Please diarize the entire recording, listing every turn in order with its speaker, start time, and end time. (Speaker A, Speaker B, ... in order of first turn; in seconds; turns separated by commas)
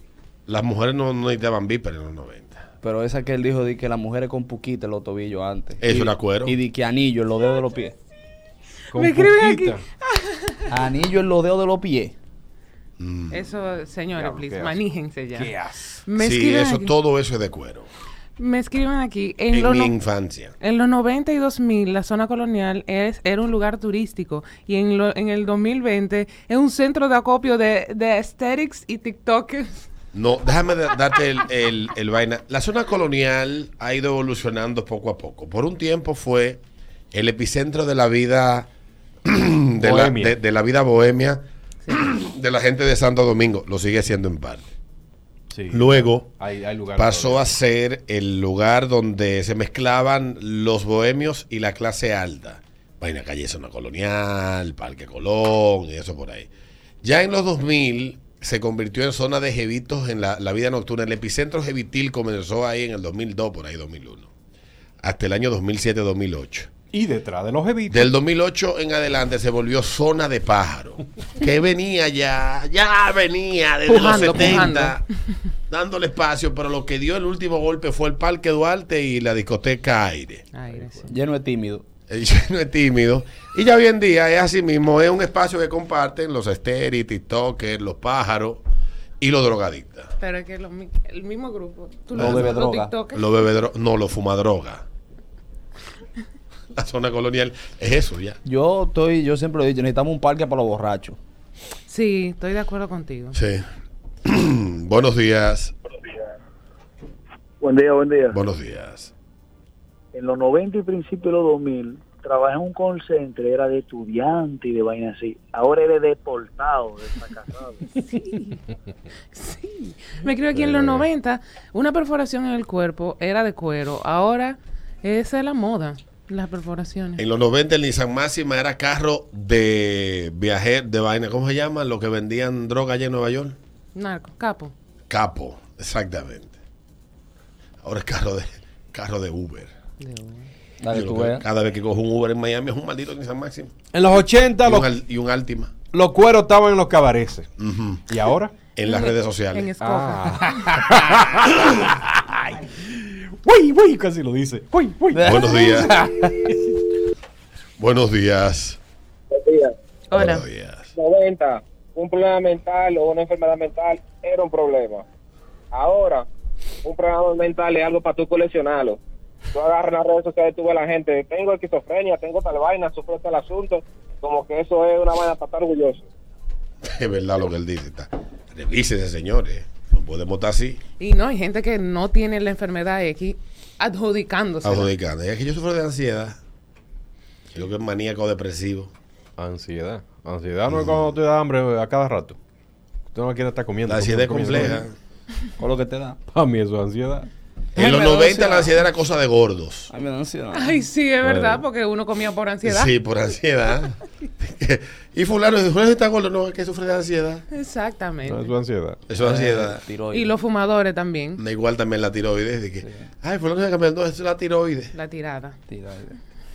Speaker A: 0.5-2.6, Speaker B: 2.8-7.9, Speaker A: 5.8-6.6, Speaker C: 8.9-9.8, Speaker D: 8.9-10.9, Speaker B: 10.9-12.1, Speaker A: 13.0-13.4, Speaker D: 13.3-15.5, Speaker C: 14.1-16.0, Speaker D: 16.1-16.9, Speaker A: 16.2-17.9, Speaker D: 18.4-19.9, Speaker A: 19.5-20.5, Speaker D: 20.6-29.8, Speaker A: 30.1-36.6, Speaker A: 37.1-38.7, Speaker A: 39.3-44.6, Speaker C: 39.8-40.3, Speaker C: 45.5-47.4, Speaker A: 45.7-46.3, Speaker A: 47.0-56.5, Speaker A: 57.0-64.3, Speaker A: 65.0-66.7, Speaker C: 66.9-68.1, Speaker A: 67.9-75.0, Speaker D: 73.9-75.0, Speaker C: 74.0-74.5, Speaker A: 75.7-80.4, Speaker D: 80.5-81.1, Speaker C: 80.7-81.1, Speaker B: 81.1-81.8, Speaker A: 82.1-88.6, Speaker A: 89.2-90.1, Speaker D: 90.2-93.3, Speaker A: 92.2-92.6, Speaker B: 92.4-92.9, Speaker A: 93.1-94.8, Speaker A: 96.7-98.4, Speaker B: 98.4-101.2, Speaker D: 101.9-103.3, Speaker A: 103.3-103.6, Speaker A: 104.2-105.7, Speaker E: 107.6-108.4, Speaker A: 108.3-109.1, Speaker E: 110.1-117.8, Speaker D: 119.3-127.2, Speaker A: 120.5-121.0, Speaker A: 127.2-133.6, Speaker D: 133.9-134.7, Speaker A: 135.1-136.5, Speaker A: 137.8-139.7, Speaker D: 140.0-140.5, Speaker B: 140.8-141.3, Speaker A: 140.9-143.7, Speaker C: 143.9-144.9, Speaker A: 144.6-145.7, Speaker C: 145.9-147.5, Speaker A: 147.6-148.1, Speaker C: 148.1-148.5, Speaker A: 148.8-149.7, Speaker D: 148.8-150.8, Speaker C: 149.8-156.6, Speaker A: 155.2-156.0, Speaker A: 157.8-158.8, Speaker F: 159.3-159.7, Speaker D: 160.1-160.4, Speaker A: 160.1-160.9, Speaker F: 160.9-165.0, Speaker F: 165.7-166.2, Speaker F: 166.8-169.0, Speaker F: 169.5-176.0, Speaker A: 176.8-180.8, Speaker D: 181.0-184.9, Speaker A: 184.6-186.4, Speaker A: 187.5-188.9, Speaker C: 189.4-192.4, Speaker A: 190.7-191.1, Speaker C: 193.1-194.8, Speaker A: 193.9-194.9, Speaker B: 195.6-196.2, Speaker C: 196.3-197.3, Speaker A: 197.7-199.9, Speaker D: 197.8-198.7, Speaker B: 199.9-200.7, Speaker D: 200.5-202.9, Speaker C: 201.2-201.6, Speaker A: 202.6-207.4, Speaker D: 207.5-208.5, Speaker C: 208.3-209.0, Speaker A: 209.1-209.8, Speaker B: 209.3-210.3, Speaker D: 210.1-211.4, Speaker A: 211.4-214.9, Speaker D: 214.9-215.6, Speaker B: 215.7-216.1